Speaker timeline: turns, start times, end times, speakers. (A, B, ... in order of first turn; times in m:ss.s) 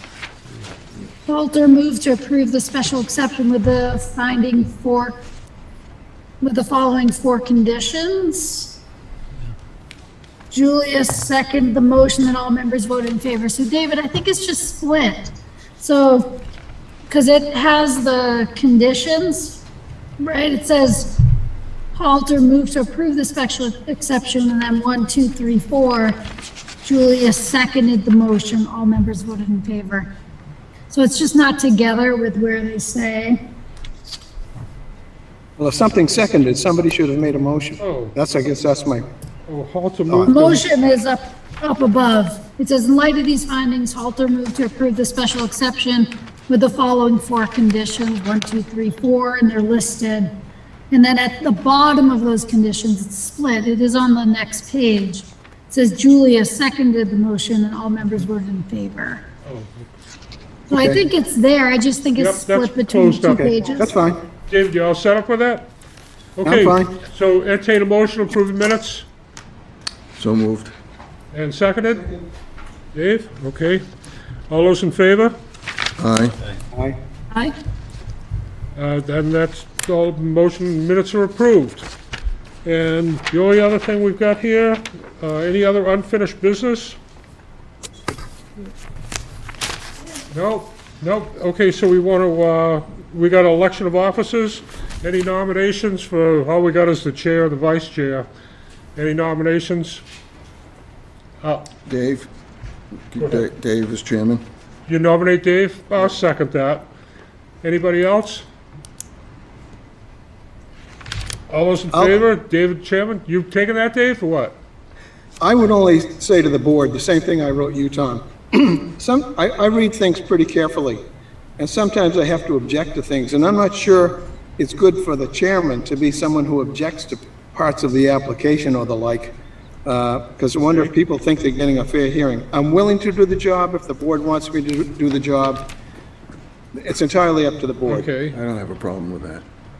0:01.2-0:05.2 A
0:06.4-0:08.8 A
0:10.5-0:16.4 A
0:17.1-0:19.6 A
0:20.2-0:21.2 A
0:21.9-0:26.2 A
0:26.8-0:30.1 A
0:30.9-0:33.4 A
0:35.6-0:39.0 B
0:37.8-0:38.2 C
0:39.5-0:40.7 C
0:40.1-0:40.3 B
0:40.3-0:50.3 A
0:50.9-0:59.2 A
0:59.4-0:59.9 C
1:00.7-1:01.0 B
1:00.7-1:03.9 A
1:02.2-1:03.5 C
1:03.3-1:04.2 B
1:04.5-1:05.7 C
1:06.4-1:09.0 C
1:06.4-1:06.9 B
1:10.2-1:10.7 D
1:11.3-1:12.1 C
1:12.9-1:13.8 C
1:14.5-1:15.4 C
1:16.0-1:16.4 D
1:18.8-1:21.9 C
1:22.6-1:27.0 C
1:30.3-1:38.3 C
1:39.0-1:40.0 C
1:41.4-1:41.7 C
1:41.9-1:42.3 D
1:43.1-1:44.4 D
1:43.2-1:43.4 C
1:44.9-1:46.9 C
1:47.6-1:48.4 C
1:51.5-1:54.6 C
1:55.4-2:01.0 B
2:01.6-2:15.7 B
2:16.7-2:18.1 B
2:17.8-2:18.4 C
2:18.3-2:19.4 D